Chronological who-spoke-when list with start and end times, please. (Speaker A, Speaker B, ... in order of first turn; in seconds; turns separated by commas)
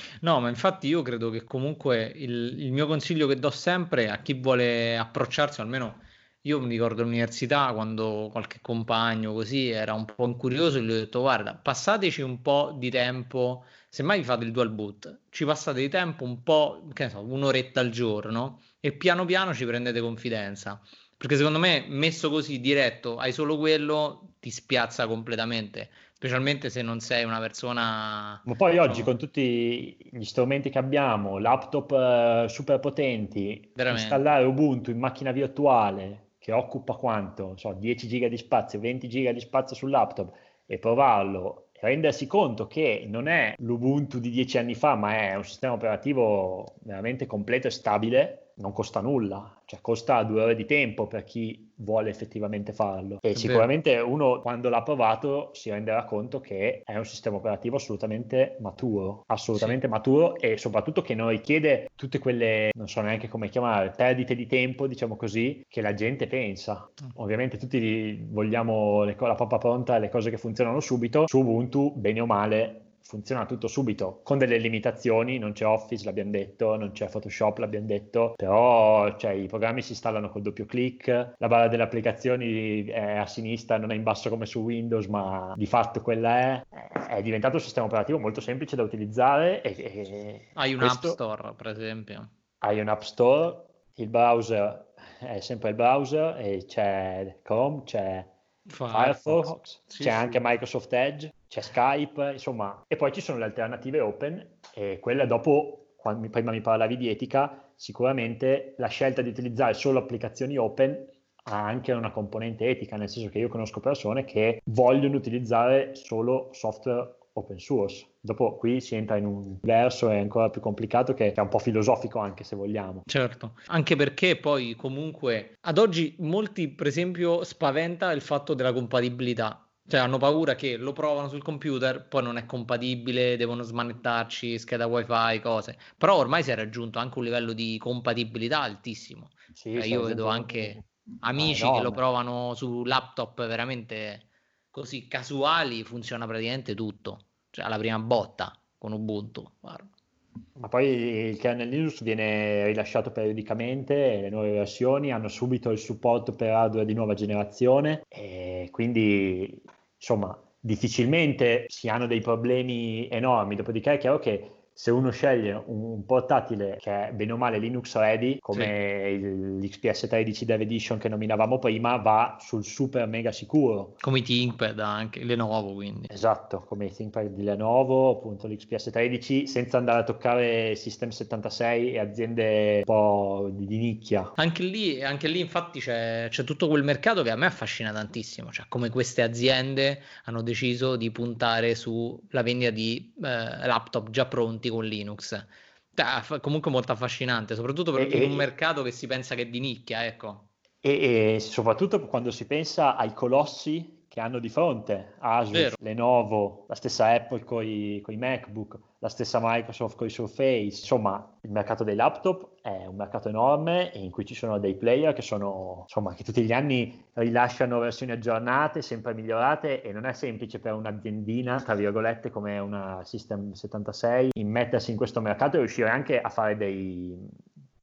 Speaker A: 0.2-29.1, Speaker B: 28.4-91.2, Speaker A: 33.8-34.2, Speaker A: 53.4-53.7, Speaker A: 90.6-92.3, Speaker B: 92.6-98.3, Speaker A: 98.7-100.4, Speaker B: 98.9-123.1, Speaker A: 123.1-149.9, Speaker B: 139.6-142.0, Speaker B: 150.6-174.0, Speaker A: 174.0-176.1, Speaker B: 176.1-184.3, Speaker A: 184.4-200.5, Speaker B: 198.0-198.5, Speaker B: 200.8-227.2, Speaker A: 205.5-205.8